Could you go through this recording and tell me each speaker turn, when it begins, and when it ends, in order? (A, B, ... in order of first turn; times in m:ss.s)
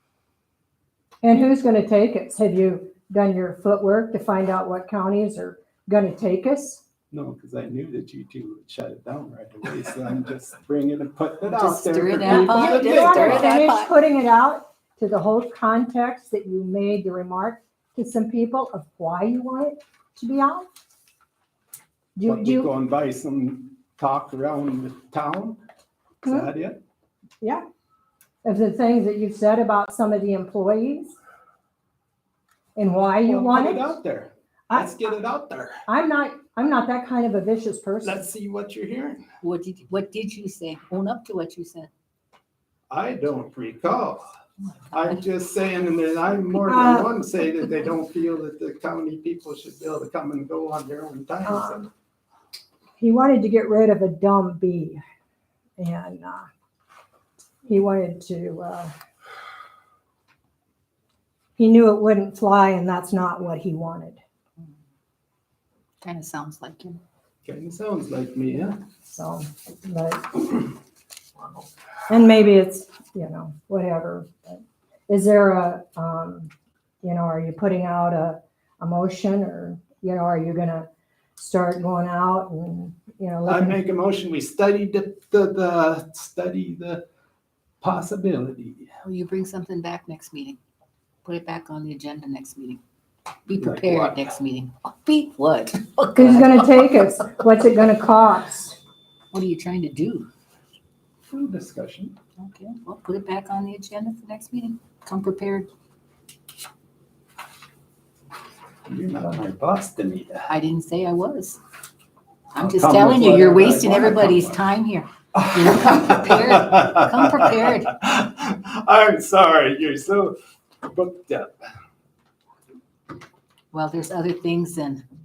0:01.2-0:06.8 A
0:07.1-0:13.5 B
0:11.5-0:13.9 C
0:12.2-0:20.7 A
0:22.2-0:22.7 A
0:22.3-0:25.6 B
0:26.2-0:26.5 A
0:26.2-0:26.8 B
0:28.4-0:31.2 A
0:32.8-0:34.0 A
0:33.2-0:35.8 B
0:34.7-0:35.0 A
0:35.9-0:38.3 A
0:38.0-0:39.2 B
0:39.4-0:41.9 C
0:42.9-0:44.2 B
0:44.9-0:51.9 B
0:46.7-0:47.1 A
0:51.5-0:51.9 A
0:53.0-0:55.0 A
0:55.8-0:56.5 A
0:57.6-0:58.9 A
1:01.6-1:04.2 A
1:06.0-1:07.0 C
1:07.4-1:08.8 B
1:09.0-1:10.6 A
1:12.1-1:16.5 A
1:17.0-1:23.8 A
1:23.5-1:27.0 B
1:27.8-1:28.9 B
1:29.0-1:30.6 C
1:31.2-1:32.8 C
1:33.5-1:36.9 C
1:33.5-1:34.3 B
1:36.1-1:38.8 A
1:39.3-1:40.3 C
1:41.3-1:42.2 B
1:42.4-1:45.7 C
1:48.9-1:50.5 B
1:50.5-1:51.6 C
1:52.5-1:58.0 C
1:52.6-1:54.6 B
1:55.4-2:01.6 B
2:03.7-2:05.1 C